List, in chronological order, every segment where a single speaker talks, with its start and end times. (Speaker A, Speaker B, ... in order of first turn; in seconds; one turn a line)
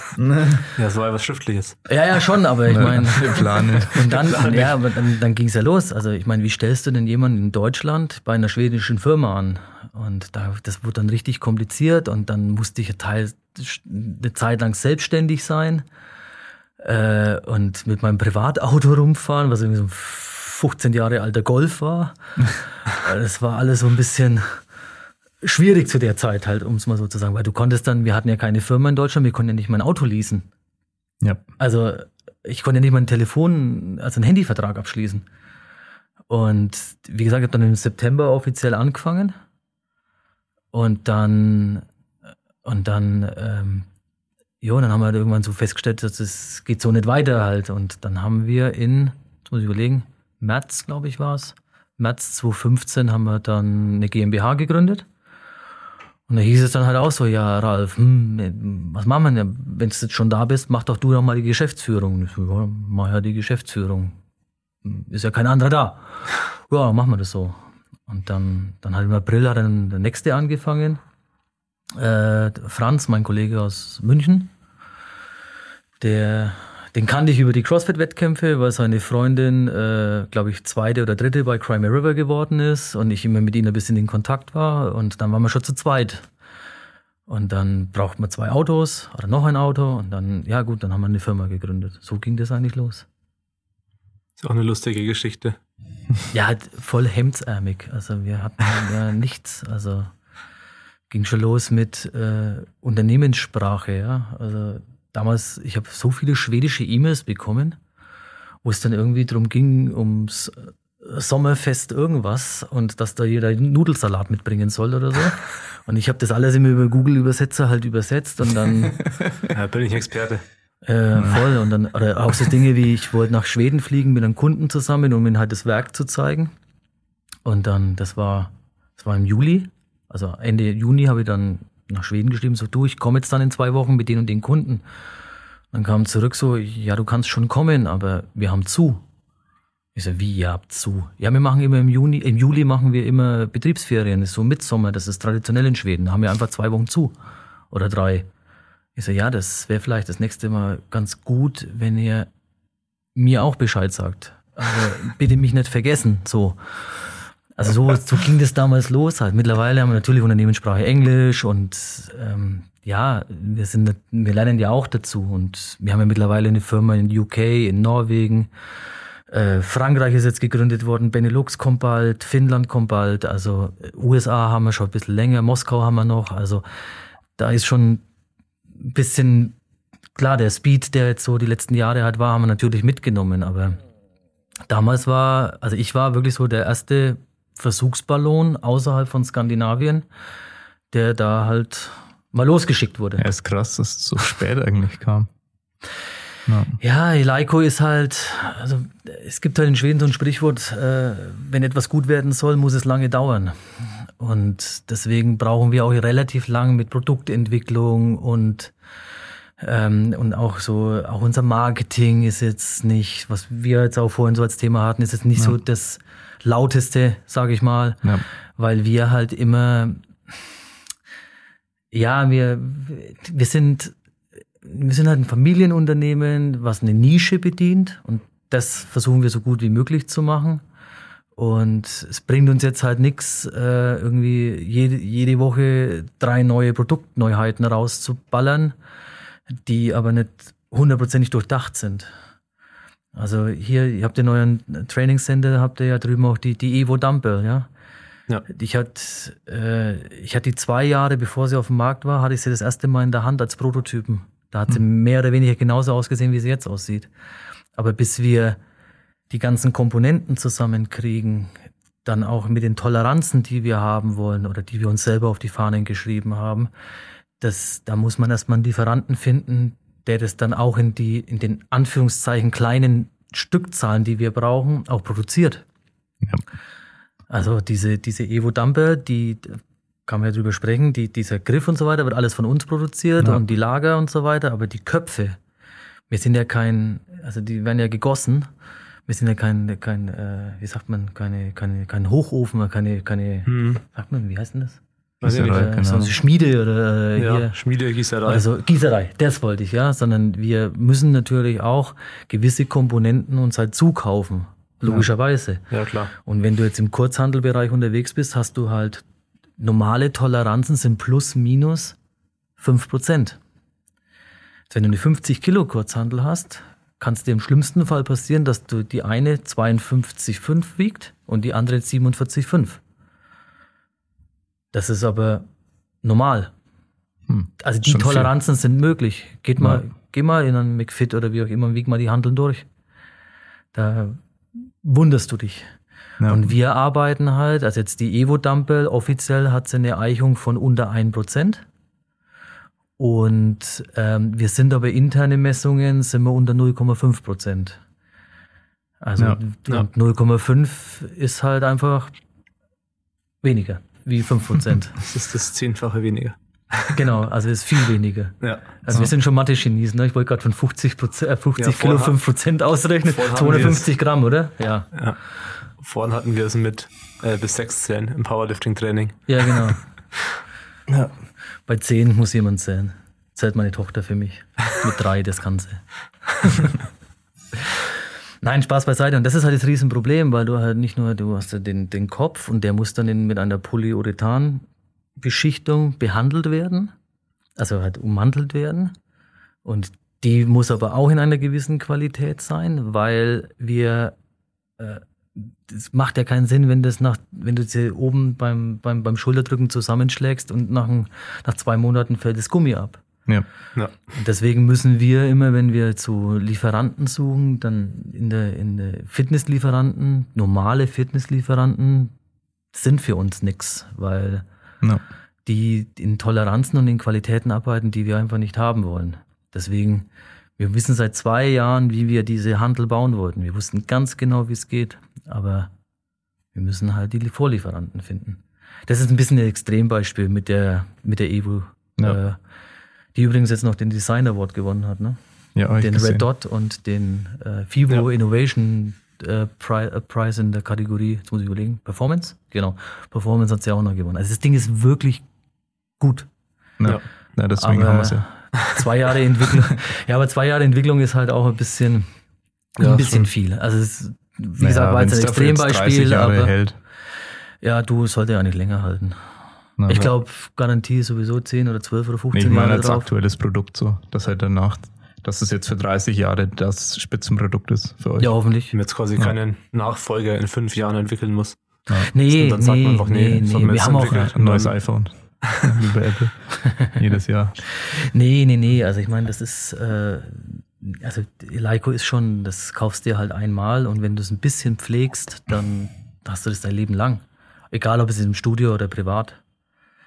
Speaker A: 0.2-0.6
Speaker B: 0.8-1.8
Speaker C: 1.9-15.8
Speaker A: 2.7-4.2
Speaker B: 4.2-4.8
Speaker C: 16.8-22.4
Speaker C: 22.9-24.6
Speaker C: 25.4-30.5
Speaker C: 31.6-35.2
Speaker C: 36.3-39.4
Speaker C: 40.7-41.9
Speaker C: 42.6-43.9
Speaker C: 44.6-55.1
Speaker C: 56.3-64.2
Speaker C: 64.8-71.0
Speaker C: 72.0-74.5
Speaker C: 76.0-86.3
Speaker C: 87.3-93.1
Speaker B: 94.4-95.6
Speaker C: 96.3-100.1
Speaker C: 101.1-107.8
Speaker C: 108.6-119.0
Speaker B: 119.5-120.4
Speaker C: 120.8-126.5
Speaker C: 127.5-134.8
Speaker C: 135.7-139.0
Speaker C: 139.9-147.2
Speaker C: 147.7-148.3
Speaker C: 149.0-152.3
Speaker C: 153.2-168.5
Speaker C: 169.3-176.7
Speaker C: 177.4-178.0
Speaker C: 178.8-179.6
Speaker C: 180.2-183.8
Speaker C: 184.7-190.1
Speaker C: 190.9-193.3
Speaker A: 193.2-195.3
Speaker A: 196.5-196.8
Speaker C: 196.8-208.8
Speaker C: 209.6-220.1
Speaker C: 221.9-223.9
Speaker C: 224.6-230.6
Speaker C: 231.4-238.8
Speaker C: 239.7-242.1
Speaker C: 243.2-247.7
Speaker C: 248.5-257.1
Speaker C: 257.8-258.6
Speaker C: 259.3-266.7
Speaker C: 267.4-275.6
Speaker C: 277.3-285.4
Speaker C: 286.1-288.5
Speaker C: 289.1-294.8
Speaker B: 293.5-293.8
Speaker A: 295.2-296.1
Speaker B: 295.2-295.7
Speaker C: 295.3-297.6
Speaker B: 297.2-298.5
Speaker C: 298.2-309.1
Speaker B: 305.7-306.1
Speaker C: 309.6-312.0
Speaker C: 312.6-313.4
Speaker C: 314.7-322.8
Speaker C: 324.7-325.5
Speaker C: 326.0-326.5
Speaker A: 327.3-328.3
Speaker C: 327.6-332.7
Speaker C: 333.7-335.7
Speaker C: 336.3-341.6
Speaker C: 343.0-347.8
Speaker C: 349.0-352.1
Speaker C: 353.4-355.0
Speaker B: 355.0-357.0
Speaker C: 356.9-364.9
Speaker B: 358.4-358.7
Speaker B: 361.6-362.2
Speaker B: 363.1-363.9
Speaker B: 364.9-365.2
Speaker B: 365.8-369.8
Speaker C: 369.3-369.9
Speaker C: 371.7-376.8
Speaker C: 377.5-384.6
Speaker C: 385.2-386.9
Speaker C: 387.6-388.9
Speaker C: 389.6-394.2
Speaker C: 394.8-403.0
Speaker C: 404.1-412.1
Speaker C: 412.7-414.4
Speaker C: 415.4-420.1
Speaker C: 420.6-425.7
Speaker C: 426.5-432.4
Speaker C: 433.1-435.2
Speaker A: 435.6-436.2
Speaker C: 435.8-445.2
Speaker C: 446.0-446.3
Speaker A: 446.8-448.2
Speaker C: 447.6-452.1
Speaker C: 452.8-456.6
Speaker B: 452.8-453.1
Speaker A: 454.6-456.8
Speaker C: 457.6-459.2
Speaker A: 459.8-460.1
Speaker C: 459.9-463.1
Speaker A: 462.3-468.3
Speaker C: 468.2-468.8
Speaker B: 468.7-474.8
Speaker C: 472.0-474.4
Speaker A: 474.1-477.6
Speaker C: 477.6-489.4